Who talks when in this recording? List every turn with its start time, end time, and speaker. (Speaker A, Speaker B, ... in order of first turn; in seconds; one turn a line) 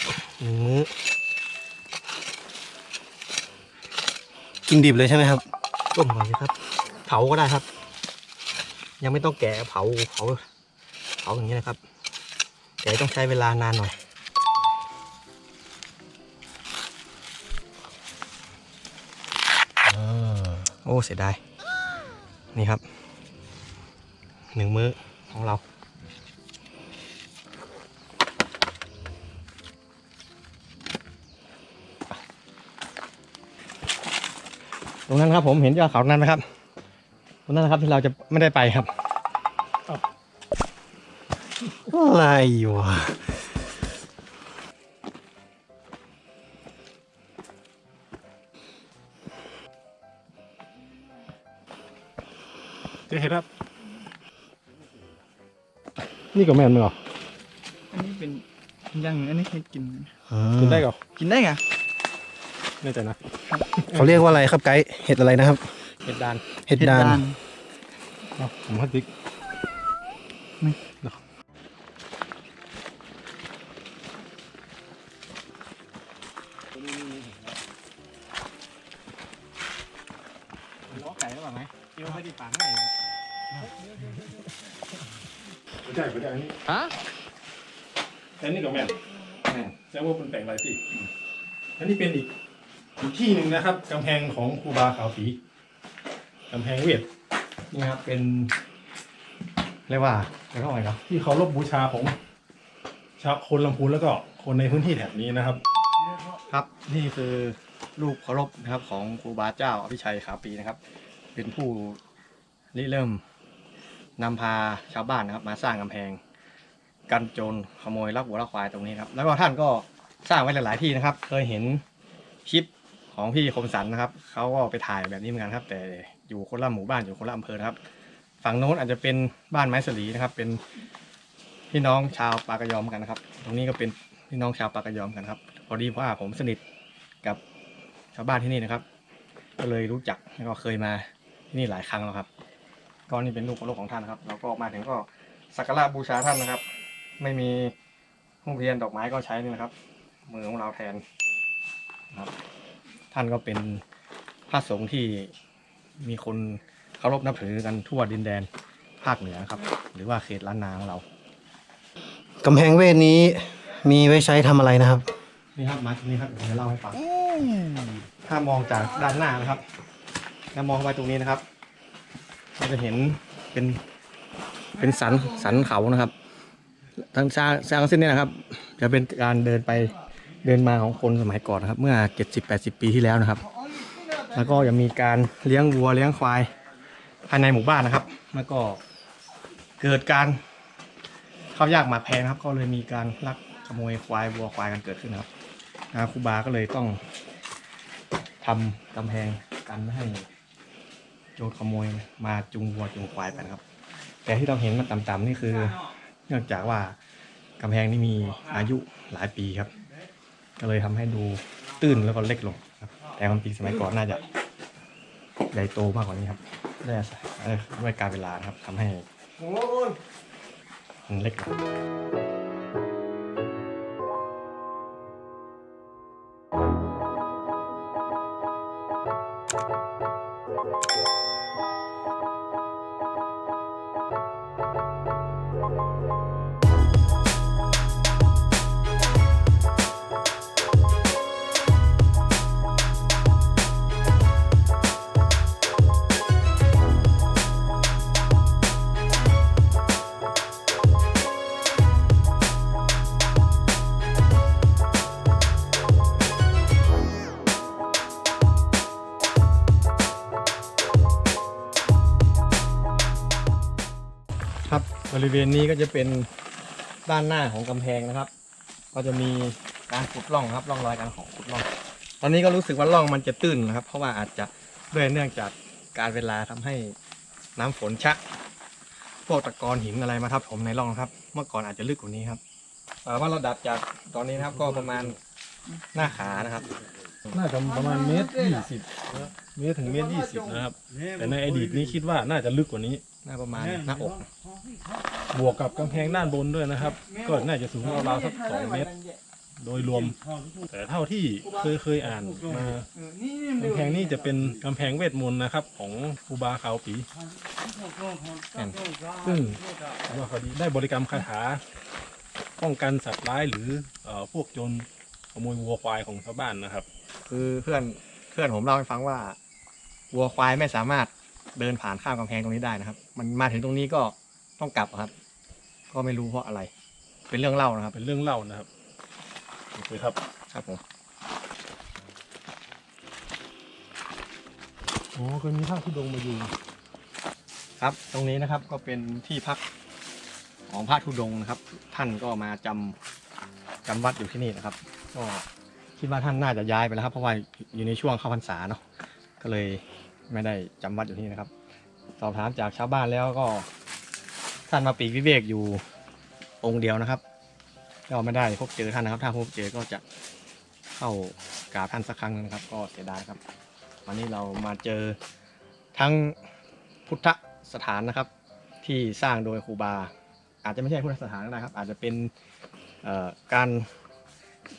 Speaker A: 0.4-0.9
Speaker B: 4.7-5.4
Speaker A: 5.9-6.5
Speaker A: 7.1-7.6
Speaker A: 9.0-10.4
Speaker A: 11.2-11.8
Speaker A: 12.8-13.9
Speaker A: 19.9-21.4
Speaker A: 22.5-22.8
Speaker A: 24.5-25.6
Speaker A: 35.1-36.4
Speaker A: 37.5-38.9
Speaker B: 41.9-43.6
Speaker C: 53.1-53.5
Speaker C: 56.3-57.0
Speaker D: 57.9-60.1
Speaker B: 60.3-60.9
Speaker C: 60.6-61.0
Speaker D: 61.1-61.6
Speaker C: 62.8-63.2
Speaker D: 63.5-63.7
Speaker C: 63.9-64.2
Speaker B: 63.9-65.7
Speaker A: 66.0-66.4
Speaker B: 66.7-67.2
Speaker D: 66.7-67.4
Speaker C: 68.4-69.1
Speaker A: 80.9-83.0
Speaker C: 85.8-86.6
Speaker C: 88.4-89.0
Speaker A: 89.5-89.7
Speaker C: 89.8-90.9
Speaker C: 91.8-92.3
Speaker C: 93.0-95.4
Speaker C: 96.5-97.1
Speaker A: 97.7-98.5
Speaker A: 99.9-101.0
Speaker C: 101.1-102.1
Speaker C: 103.2-105.6
Speaker A: 106.5-110.8
Speaker A: 111.3-112.0
Speaker A: 112.7-113.2
Speaker A: 114.2-116.2
Speaker A: 117.1-121.8
Speaker A: 122.5-127.8
Speaker A: 128.4-130.6
Speaker A: 131.7-136.6
Speaker A: 138.1-138.8
Speaker A: 139.6-142.3
Speaker A: 143.1-146.6
Speaker A: 147.2-147.7
Speaker A: 148.4-149.7
Speaker A: 150.3-151.0
Speaker A: 153.1-153.8
Speaker A: 154.5-155.3
Speaker A: 156.0-158.5
Speaker A: 159.0-161.0
Speaker B: 162.4-165.0
Speaker A: 165.6-167.1
Speaker A: 168.2-169.6
Speaker A: 170.5-171.4
Speaker A: 172.6-173.8
Speaker A: 174.8-176.1
Speaker A: 177.1-183.4
Speaker D: 183.6-184.5
Speaker A: 184.3-186.5
Speaker A: 187.3-188.8
Speaker A: 189.8-190.4
Speaker A: 191.5-195.3
Speaker A: 195.9-197.0
Speaker A: 198.4-200.3
Speaker A: 201.3-203.6
Speaker A: 204.2-207.0
Speaker A: 207.6-209.7
Speaker A: 210.6-214.2
Speaker A: 215.5-219.0
Speaker A: 221.1-221.5
Speaker A: 264.6-266.3
Speaker A: 267.1-268.3
Speaker A: 268.9-271.7
Speaker A: 272.2-276.9
Speaker A: 277.6-278.2
Speaker A: 279.3-282.4
Speaker A: 283.0-285.2
Speaker A: 285.9-286.7
Speaker C: 287.3-293.0
Speaker D: 287.6-288.7
Speaker D: 289.8-290.7
Speaker A: 293.2-294.3
Speaker C: 295.3-298.9
Speaker D: 296.8-299.2
Speaker C: 299.6-302.9
Speaker D: 301.4-301.7
Speaker D: 302.9-304.4
Speaker C: 303.6-307.1
Speaker A: 308.5-308.8
Speaker C: 309.2-311.6
Speaker C: 312.6-316.9
Speaker A: 317.2-319.4
Speaker A: 320.1-325.1
Speaker A: 325.9-326.7
Speaker A: 327.3-328.0
Speaker C: 327.9-328.7
Speaker C: 329.7-330.2
Speaker A: 330.5-330.8
Speaker C: 335.1-336.5
Speaker A: 337.8-339.6
Speaker A: 340.7-342.9
Speaker A: 343.9-345.4
Speaker A: 346.0-348.8
Speaker A: 349.4-351.5
Speaker A: 352.2-353.7
Speaker A: 354.7-355.8
Speaker A: 356.6-357.2
Speaker A: 358.1-360.0
Speaker A: 361.0-363.4
Speaker A: 364.1-365.2
Speaker A: 365.9-366.4
Speaker A: 367.1-368.3
Speaker A: 368.8-370.1
Speaker A: 370.6-372.3
Speaker A: 373.0-373.9